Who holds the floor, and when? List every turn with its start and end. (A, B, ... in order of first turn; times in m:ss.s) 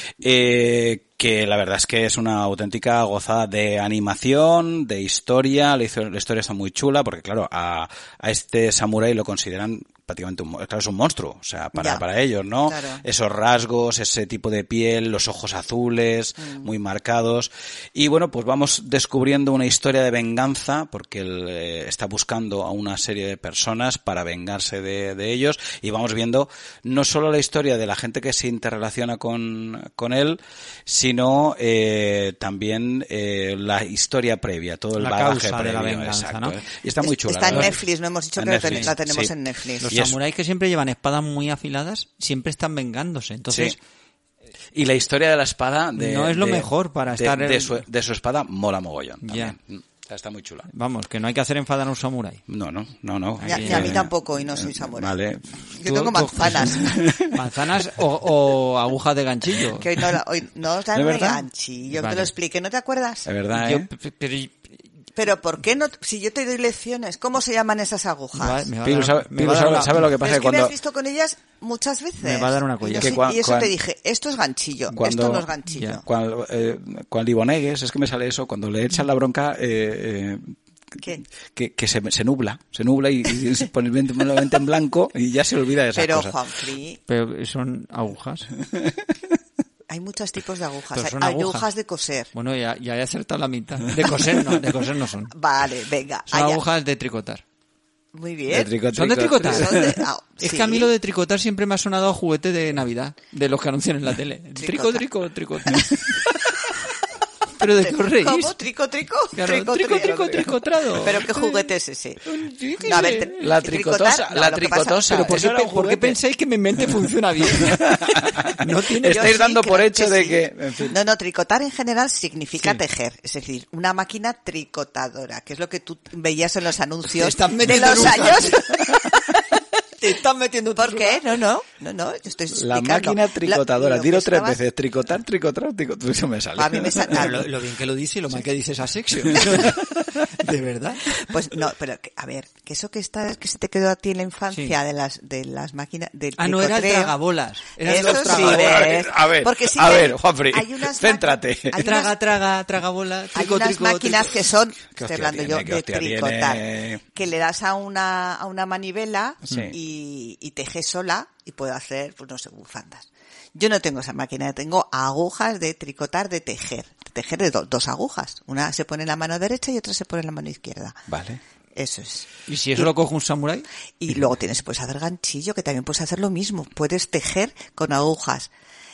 0:00.2-0:37.8 A
0:11.8-0:12.0 B
0:12.6-0:13.0 B
0:35.0-0:36.6 C
0:37.0-0:39.9 B
0:38.4-0:39.3 A
0:39.8-0:43.8 C
0:39.9-0:40.1 A
0:43.5-0:43.7 A
0:44.7-0:50.7 A
0:46.0-0:47.8 C
0:49.2-0:49.6 C
0:50.7-0:52.4 C
0:52.5-0:56.0 A
0:53.4-0:54.0 C
0:53.5-0:55.2 B
0:55.7-0:57.0 B
0:55.8-0:59.9 C
0:56.7-0:57.4 A
0:59.8-1:03.3 B
1:00.9-1:01.4 A
1:01.9-1:02.3 C
1:03.2-1:03.9 A
1:03.5-1:04.7 C
1:05.2-1:08.7 B
1:08.3-1:10.0 C
1:08.8-1:10.7 A
1:10.2-1:16.0 B
1:12.2-1:13.2 C
1:13.0-1:13.7 A
1:14.9-1:15.5 A
1:16.0-1:20.5 A
1:21.0-1:21.2 B
1:21.5-1:26.4 A
1:25.9-1:27.0 B
1:27.1-1:28.5 C
1:28.7-1:29.0 A
1:29.9-1:32.3 B
1:30.9-1:31.7 C
1:32.3-1:35.3 C
1:35.3-1:36.6 B
1:36.3-1:37.4 C
1:38.1-1:38.7 B
1:38.5-1:40.0 A
1:38.9-1:39.8 C
1:39.4-1:40.9 B
1:40.4-1:46.6 C
1:44.6-1:45.0 B
1:47.6-1:48.5 C
1:47.6-1:55.4 B
1:49.3-1:51.7 C
1:52.2-1:53.3 C
1:52.9-1:56.2 A
1:55.2-1:59.3 C
1:57.5-2:01.0 A
1:59.1-2:09.6 B
2:07.1-2:09.0 C
2:10.0-2:11.2 C
2:10.8-2:14.6 B
2:12.5-2:17.2 A
2:16.6-2:17.5 B
2:17.1-2:21.2 C
2:21.1-2:27.1 B
2:24.5-2:24.8 C
2:26.4-2:28.9 C
2:27.8-2:32.1 B
2:28.0-2:31.8 A
2:31.8-2:34.3 C
2:33.3-2:51.0 B
2:35.0-2:37.0 A
2:39.5-2:39.7 A
2:51.1-2:51.4 A
2:51.8-2:52.9 B
2:52.5-2:53.6 C
2:54.0-2:58.5 B